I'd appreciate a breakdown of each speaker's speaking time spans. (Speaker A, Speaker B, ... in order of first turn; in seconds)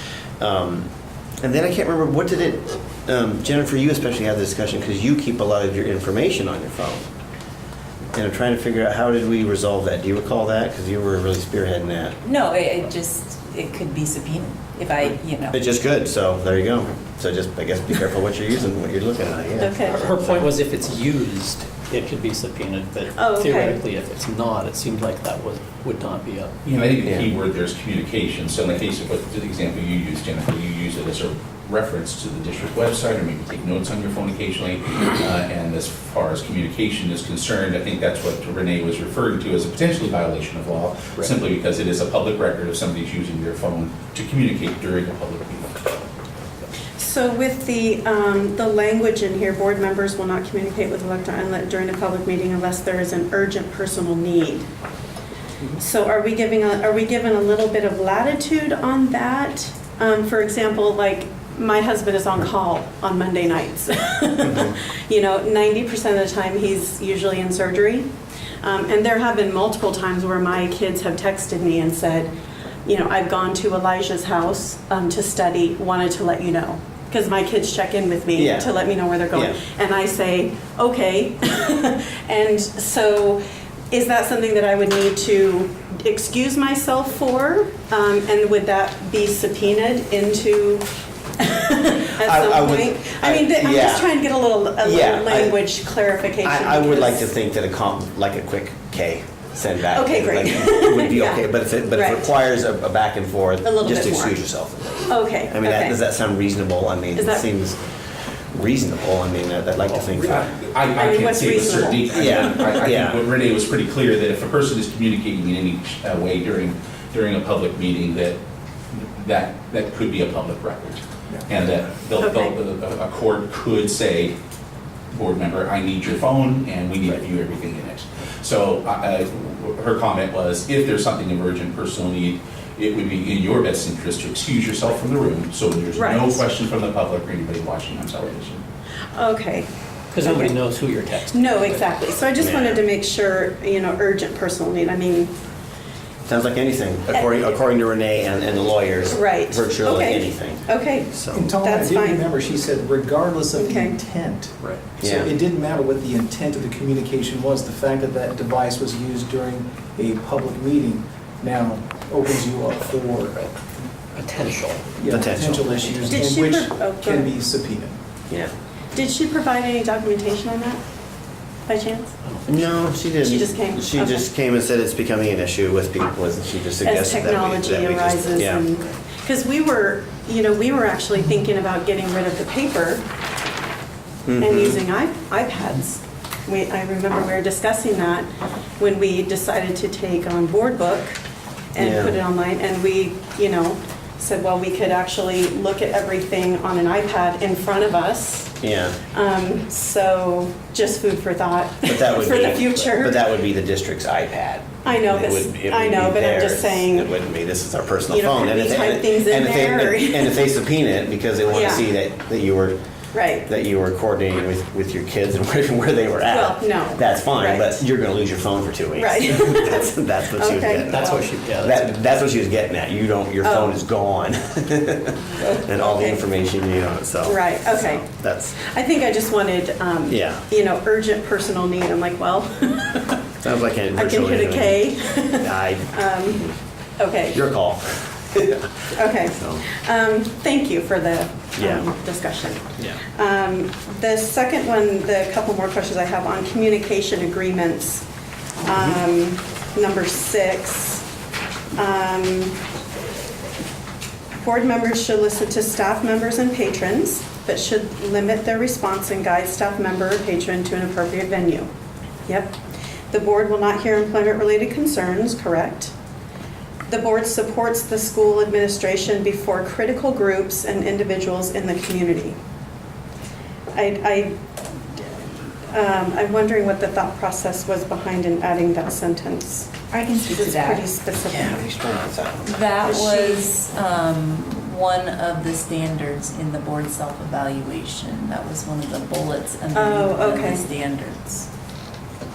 Speaker A: 0.4-0.9, 1.4-7.0, 8.1-12.2, 15.5-20.5, 27.0-27.3, 78.3-78.7, 79.3-79.6, 92.2-94.1, 94.8-95.6, 96.4-107.8, 108.5-110.5, 112.1-113.2, 142.4-142.8, 146.3-151.4, 155.0-155.3, 165.1-165.7, 172.5-178.7, 184.2-184.8, 191.8-192.2, 198.6-199.0, 201.8-212.8, 213.4-228.6, 230.1-230.5, 233.4-236.6, 237.3-239.7, 241.6-241.9, 248.8-249.0, 281.2-282.6
Speaker B: 12.2-15.6, 279.9-280.9, 282.4-291.5
Speaker C: 19.6-20.1, 23.1-23.8, 47.0-54.7, 55.8-68.1, 68.6-72.3, 72.9-90.9, 91.4-97.3, 99.9-102.2, 103.6-104.4, 105.1-106.0, 107.2-107.5, 111.0-112.8, 122.2-122.6, 135.9-136.4, 139.2-139.7, 140.2-140.6, 141.3-145.3, 149.1-152.3, 153.6-154.0, 166.0-167.3, 168.9-170.8, 171.7-172.1, 173.2-174.2, 176.8-183.0, 184.4-188.3, 188.8-191.2, 191.8-198.6, 199.1-203.2, 204.8-207.1, 208.1-210.4, 211.5-211.8, 213.1-213.5, 216.3-217.8, 219.0-221.2, 223.4-223.7, 225.4-226.2, 227.2-233.2, 233.9-236.4, 237.0-237.4, 239.0-248.1, 248.6-251.1, 251.8-252.6, 254.3-261.7, 262.3-262.5, 263.1-265.9, 266.9-272.4, 273.7-274.4, 275.0-281.7, 282.8-283.5, 289.7-290.6
Speaker D: 19.9-26.5, 140.1-141.9, 164.1-164.9, 172.2-173.0, 220.9-221.8
Speaker E: 26.6-46.0, 109.9-118.4, 118.9-124.3, 125.1-138.6
Speaker F: 151.3-163.4, 164.9-168.0